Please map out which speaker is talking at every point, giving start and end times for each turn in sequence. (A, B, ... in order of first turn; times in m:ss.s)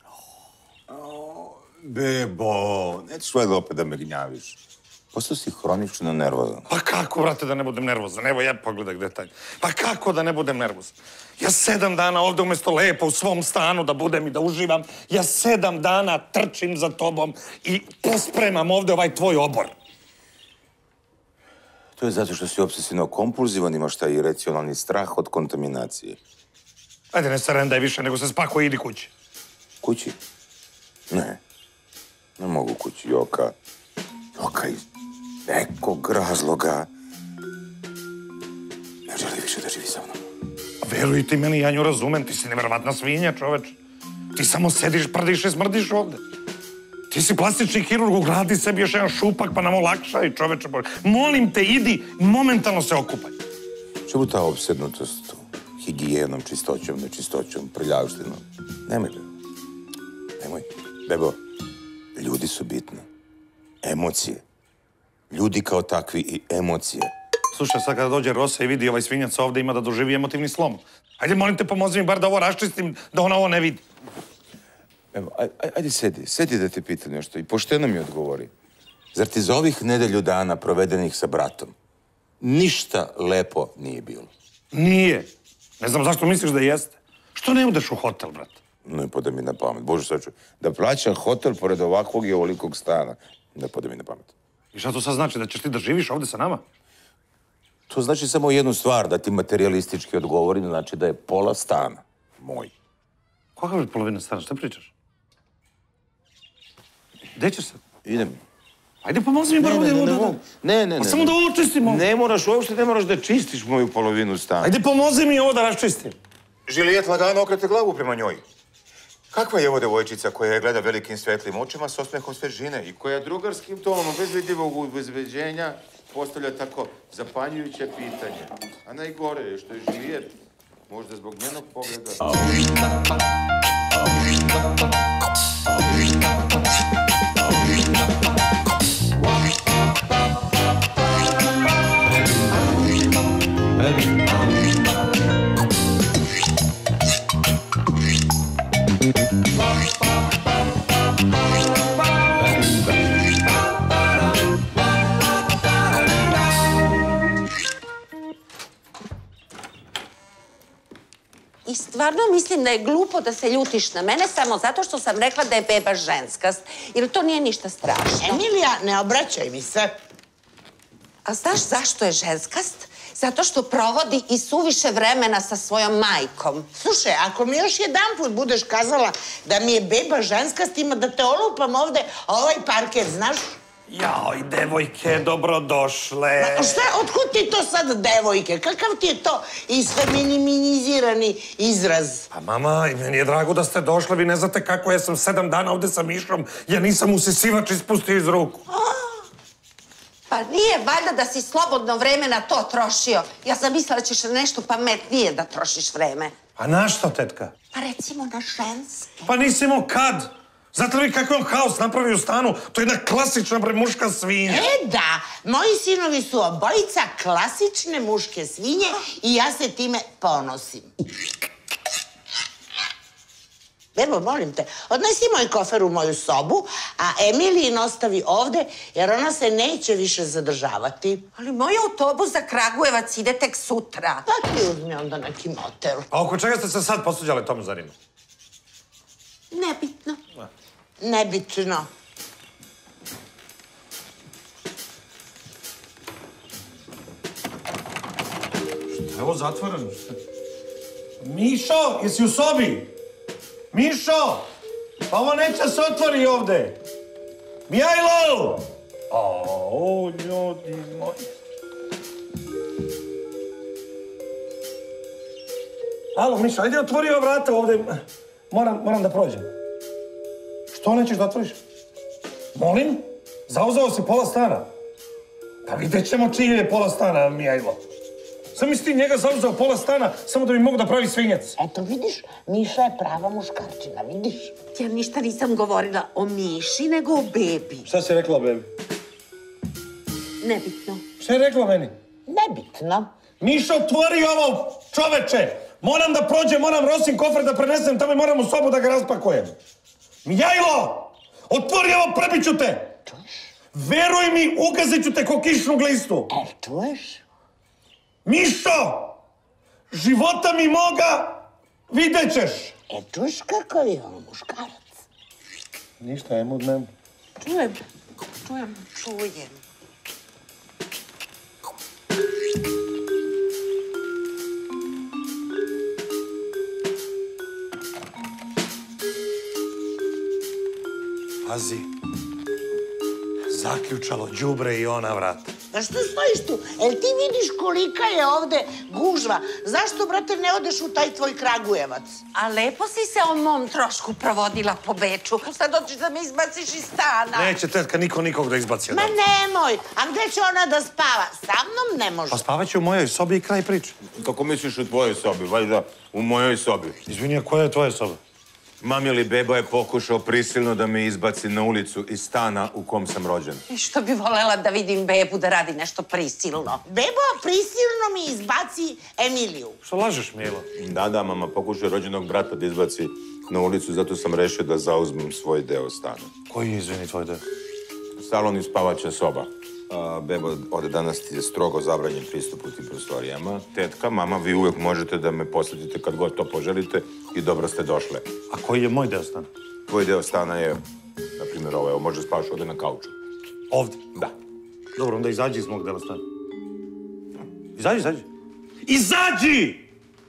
0:00.9-0:04.6 A
0:05.1-0:06.7 A
0:06.7-0:19.7 B
0:22.0-0:26.2 A
0:27.1-0:29.1 B
0:29.8-0:30.2 A
0:31.1-0:31.4 A
0:32.4-0:33.5 A
0:34.4-0:34.8 A
0:35.5-0:36.9 A
0:39.0-0:40.2 A
0:40.8-0:43.8 B
0:44.4-0:46.2 B
0:47.1-0:53.3 B
0:54.0-0:59.3 A
1:00.4-1:01.4 A
1:02.1-1:03.0 A
1:03.8-1:04.4 A
1:05.3-1:07.1 A
1:07.5-1:13.8 B
1:15.1-1:18.5 A
1:19.1-1:21.7 A
1:22.4-1:24.3 A
1:24.7-1:25.3 B
1:25.8-1:28.6 B
1:28.8-1:34.3 A
1:34.7-1:36.6 B
1:37.9-1:42.7 A
1:43.6-1:44.9 B
1:47.4-1:47.8 B
1:48.0-1:48.4 A
1:49.0-1:50.4 B
1:49.6-1:54.8 A
1:51.0-1:52.0 B
1:54.6-1:56.2 B
1:56.7-1:58.4 A
1:59.3-2:10.3 A
2:10.9-2:12.6 A
2:41.6-2:48.4 C
2:48.2-2:49.9 D
2:51.2-2:56.7 C
2:56.7-3:03.6 D
3:03.9-3:06.8 B
3:06.4-3:12.3 D
3:12.3-3:18.6 B
3:18.7-3:19.2 C
3:20.3-3:26.3 C
3:26.6-3:27.5 B
3:27.7-3:29.3 C
3:29.2-3:34.7 B
3:34.4-3:40.9 D
3:43.9-3:51.2 D
3:51.3-3:54.2 C
3:54.3-3:56.1 D
3:56.1-3:57.9 B
3:59.5-4:00.2 C
4:01.0-4:01.9 D
4:08.9-4:10.1 B
4:11.2-4:12.9 B
4:13.7-4:14.4 B
4:15.1-4:16.8 B
4:17.7-4:21.2 B
4:26.1-4:29.5 B
4:30.7-4:31.6 B
4:32.5-4:34.7 B
4:35.6-4:37.8 B
4:38.5-4:41.6 B
4:41.6-4:44.5 D
4:44.7-4:47.9 C
4:47.8-4:48.7 B
4:50.4-4:51.0 C
4:51.2-4:51.9 B
4:52.2-4:53.1 D
4:53.4-4:59.6 B
5:00.2-5:02.9 B
5:03.0-5:03.5 D
5:03.7-5:06.3 B
5:06.3-5:07.2 D
5:08.2-5:09.2 B
5:09.9-5:12.7 B
5:12.9-5:14.9 D
5:16.0-5:16.9 B
5:17.4-5:19.6 C
5:31.4-5:31.9 B
5:33.5-5:35.5 B
5:35.7-5:42.2 D
5:42.3-5:47.6 C
5:47.3-5:49.1 B
5:48.9-5:52.4 D
5:52.3-5:54.0 B
5:54.0-5:57.0 A
5:57.1-5:58.2 B
5:58.8-6:03.6 A
6:03.7-6:06.8 C
6:06.8-6:09.8 D
6:09.8-6:10.7 B
6:10.7-6:16.3 A
6:16.5-6:17.4 B
6:18.2-6:28.3 A
6:28.5-6:29.5 B
6:29.9-6:30.8 A
6:31.4-6:33.1 A
6:33.7-6:34.1 B
6:35.0-6:36.2 B
6:37.8-6:38.2 B
6:38.8-6:39.8 B